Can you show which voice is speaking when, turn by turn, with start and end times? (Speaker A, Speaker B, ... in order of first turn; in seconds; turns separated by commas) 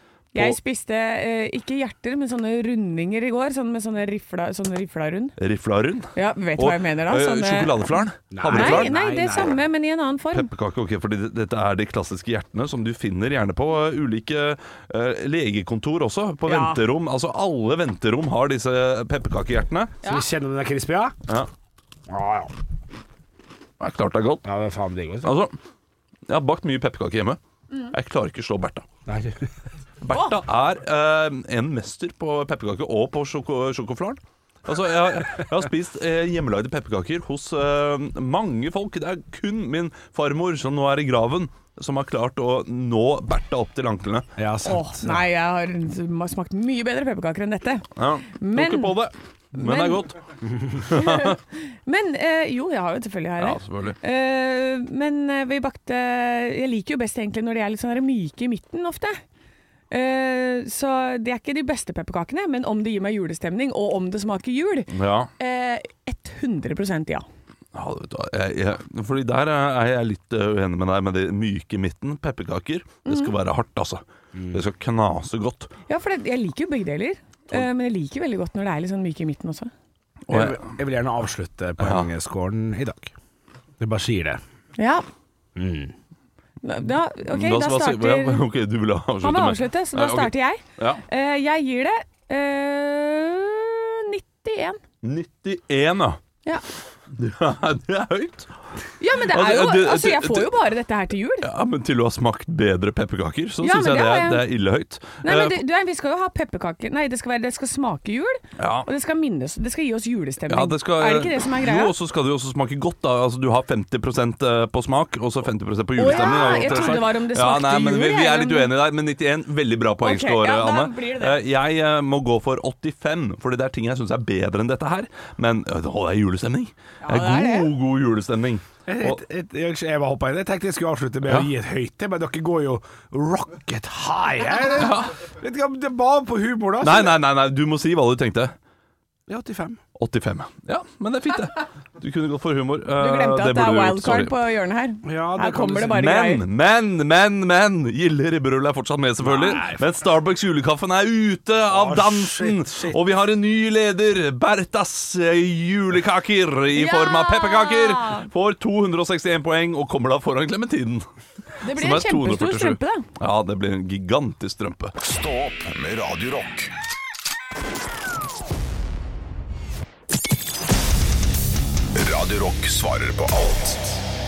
Speaker A: 0.3-5.4, Speaker B: 5.4-8.9, Speaker A: 6.2-7.8, Speaker C: 8.3-9.6, Speaker A: 8.5-10.5, Speaker B: 10.3-19.9, Speaker A: 16.5-16.8, Speaker C: 20.0-21.2, Speaker C: 22.1-22.5, Speaker B: 23.8-24.4, Speaker C: 24.4-25.3, Speaker B: 25.2-25.5, Speaker B: 26.3-28.9, Speaker C: 29.1-29.5, Speaker B: 30.0-44.3, Speaker C: 44.4-45.2, Speaker A: 44.6-49.0, Speaker B: 48.0-50.2, Speaker A: 49.5-50.1, Speaker C: 50.5-50.8, Speaker B: 50.9-51.4, Speaker A: 50.9-59.2, Speaker B: 53.4-54.0, Speaker A: 59.9-67.2, Speaker B: 64.9-65.3, Speaker B: 67.7-75.7, Speaker A: 73.1-73.3, Speaker C: 74.3-74.6, Speaker A: 75.9-79.7, Speaker B: 80.3-80.6, Speaker C: 80.3-83.1, Speaker B: 81.8-82.1, Speaker C: 83.8-84.4, Speaker A: 84.8-85.0, Speaker C: 85.6-85.9, Speaker A: 86.6-88.4, Speaker B: 87.3-91.0, Speaker A: 89.2-94.8, Speaker B: 95.0-96.2, Speaker B: 97.1-98.5, Speaker A: 99.0-101.5, Speaker B: 99.2-100.5, Speaker B: 101.4-105.6, Speaker A: 103.6-104.5, Speaker A: 105.2-112.0, Speaker B: 108.6-108.9, Speaker B: 110.5-129.2, Speaker A: 116.0-118.7, Speaker A: 120.0-121.4, Speaker A: 127.0-127.7, Speaker C: 128.9-137.2, Speaker B: 134.8-135.2, Speaker B: 136.8-138.5, Speaker C: 139.3-139.8, Speaker B: 140.0-144.4, Speaker A: 143.0-146.4, Speaker C: 145.0-146.0, Speaker B: 145.9-161.1, Speaker C: 149.2-149.8, Speaker C: 151.7-153.0, Speaker A: 156.7-158.3, Speaker A: 161.6-163.1, Speaker B: 161.7-165.0, Speaker D: 165.0-166.7, Speaker D: 171.9-174.0